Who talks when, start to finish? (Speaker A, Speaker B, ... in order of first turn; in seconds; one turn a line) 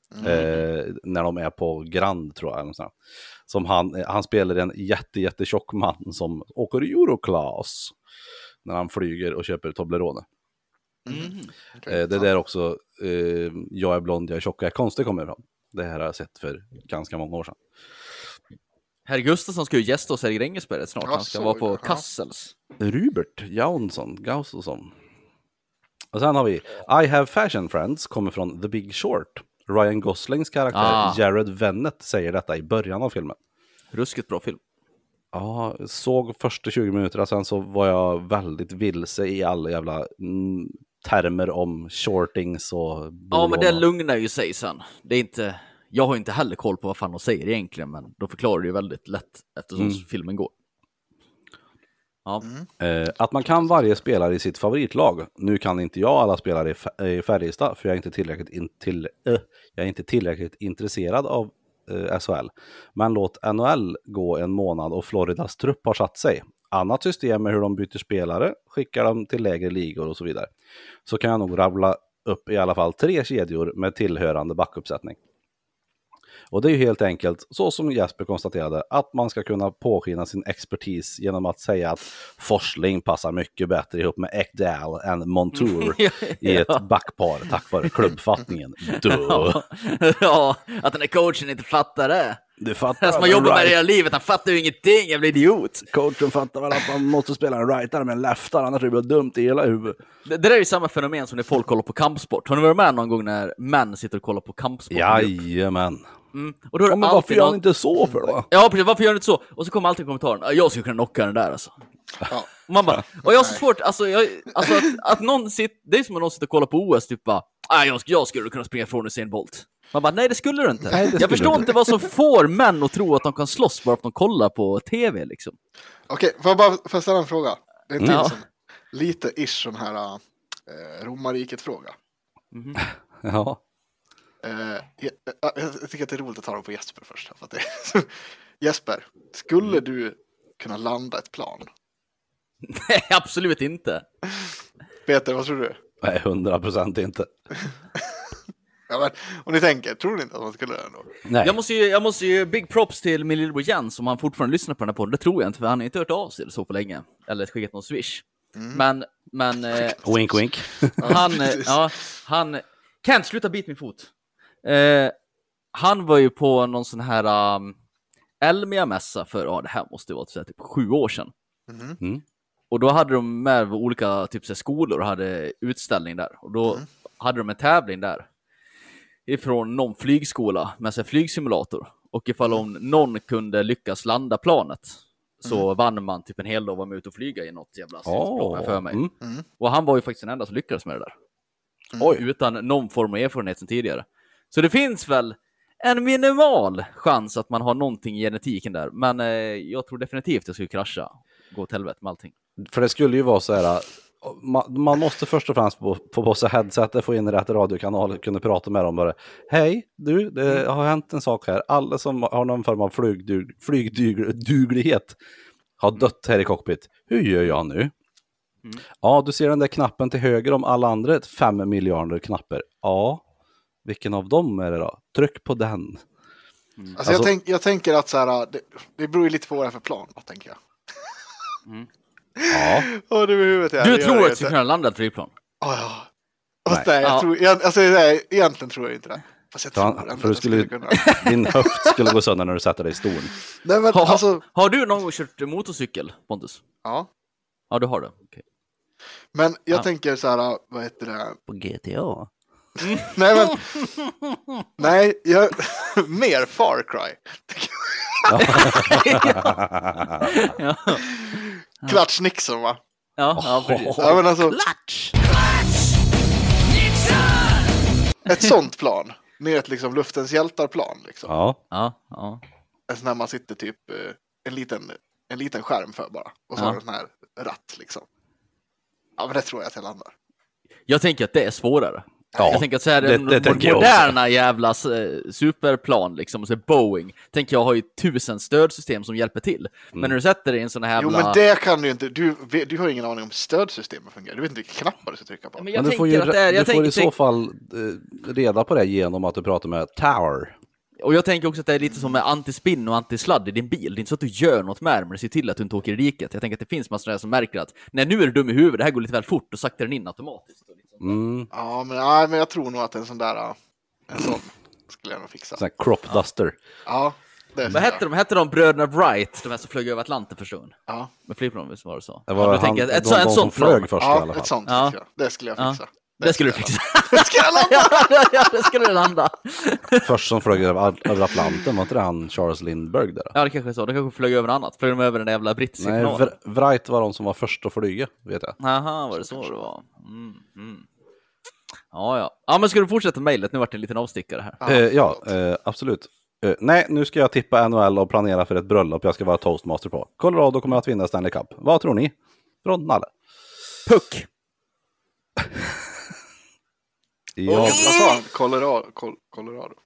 Speaker A: 0.1-0.5
Speaker B: 0.2-2.9
Speaker C: 0.2-0.6
Speaker B: 3.5-7.9
Speaker B: 8.6-10.2
Speaker A: 11.1-12.3
Speaker C: 11.1-11.5
Speaker B: 11.9-17.6
Speaker C: 19.1-22.5
Speaker A: 21.0-22.0
Speaker B: 22.8-24.9
Speaker B: 26.1-33.4
Speaker C: 30.7-31.2
Speaker C: 33.9-34.6
Speaker B: 35.3-43.8
Speaker C: 43.3-50.5
Speaker B: 49.8-50.0
Speaker A: 52.4-52.7
Speaker B: 52.8-70.5
Speaker B: 71.0-75.2
Speaker B: 76.5-89.6
Speaker C: 85.5-86.8
Speaker C: 87.8-88.1
Speaker C: 88.8-92.4
Speaker B: 92.6-93.8
Speaker C: 93.0-95.9
Speaker B: 95.9-100.0
Speaker C: 100.2-105.4
Speaker B: 104.9-106.0
Speaker C: 106.3-107.6
Speaker B: 106.9-108.5
Speaker C: 108.5-111.7
Speaker A: 112.2-112.5
Speaker C: 112.7-125.5
Speaker A: 113.2-113.6
Speaker B: 120.9-121.7
Speaker A: 126.1-131.9
Speaker C: 128.0-128.4
Speaker C: 132.5-132.8
Speaker B: 132.8-133.6
Speaker A: 134.4-141.7
Speaker C: 142.6-144.0
Speaker A: 145.1-145.8
Speaker B: 146.0-147.3
Speaker A: 148.9-151.1
Speaker B: 151.2-151.6
Speaker C: 151.4-160.1
Speaker A: 158.5-158.8
Speaker B: 160.0-161.1
Speaker C: 161.0-164.1
Speaker A: 161.0-161.8
Speaker C: 164.6-165.1
Speaker C: 165.7-167.8
Speaker C: 168.4-171.3
Speaker A: 171.7-172.0
Speaker C: 172.7-178.2
Speaker C: 179.2-189.0
Speaker B: 188.1-189.1
Speaker C: 189.6-191.1
Speaker A: 191.9-192.2
Speaker C: 192.0-202.3
Speaker B: 202.6-215.2
Speaker B: 215.8-217.9
Speaker B: 219.0-223.2
Speaker B: 223.8-226.0
Speaker A: 227.0-231.2
Speaker B: 227.0-227.3
Speaker A: 232.3-234.5
Speaker B: 232.5-232.9
Speaker C: 233.8-235.3
Speaker A: 235.6-236.1
Speaker A: 236.6-241.1
Speaker C: 237.0-237.3
Speaker B: 239.7-243.3
Speaker C: 240.9-242.0
Speaker A: 243.6-244.4
Speaker C: 243.9-246.6
Speaker C: 247.7-248.4
Speaker A: 249.3-251.4
Speaker B: 251.5-252.3
Speaker A: 252.8-253.9
Speaker C: 252.8-254.1
Speaker A: 254.8-258.8
Speaker B: 258.3-260.3
Speaker C: 258.4-259.6
Speaker C: 260.2-262.0
Speaker A: 261.0-262.8
Speaker C: 263.2-264.2
Speaker B: 263.4-265.1
Speaker A: 264.0-264.6
Speaker C: 266.8-267.6
Speaker A: 268.3-271.3
Speaker B: 271.3-271.6
Speaker C: 271.7-272.4
Speaker A: 272.9-278.0
Speaker A: 279.2-280.1
Speaker C: 280.9-291.4
Speaker A: 282.3-282.6
Speaker B: 282.4-284.1
Speaker A: 291.0-295.7
Speaker C: 295.6-297.1
Speaker B: 295.8-300.5
Speaker C: 301.0-311.1
Speaker A: 301.9-302.2
Speaker B: 311.0-311.5
Speaker A: 311.5-313.5
Speaker A: 314.1-315.6
Speaker B: 315.6-316.6
Speaker A: 316.9-318.0
Speaker C: 317.7-320.7
Speaker C: 321.3-323.9
Speaker B: 322.3-324.5
Speaker A: 324.0-328.3
Speaker C: 324.7-324.9
Speaker C: 325.6-330.1
Speaker B: 330.0-333.3
Speaker C: 333.3-336.3
Speaker B: 335.8-338.6
Speaker C: 338.6-340.9
Speaker A: 339.1-339.6
Speaker C: 341.9-344.6
Speaker A: 344.6-345.3
Speaker B: 344.6-353.1
Speaker C: 353.9-354.3
Speaker B: 355.4-355.6
Speaker B: 357.4-357.9
Speaker C: 357.5-358.2
Speaker A: 357.5-359.8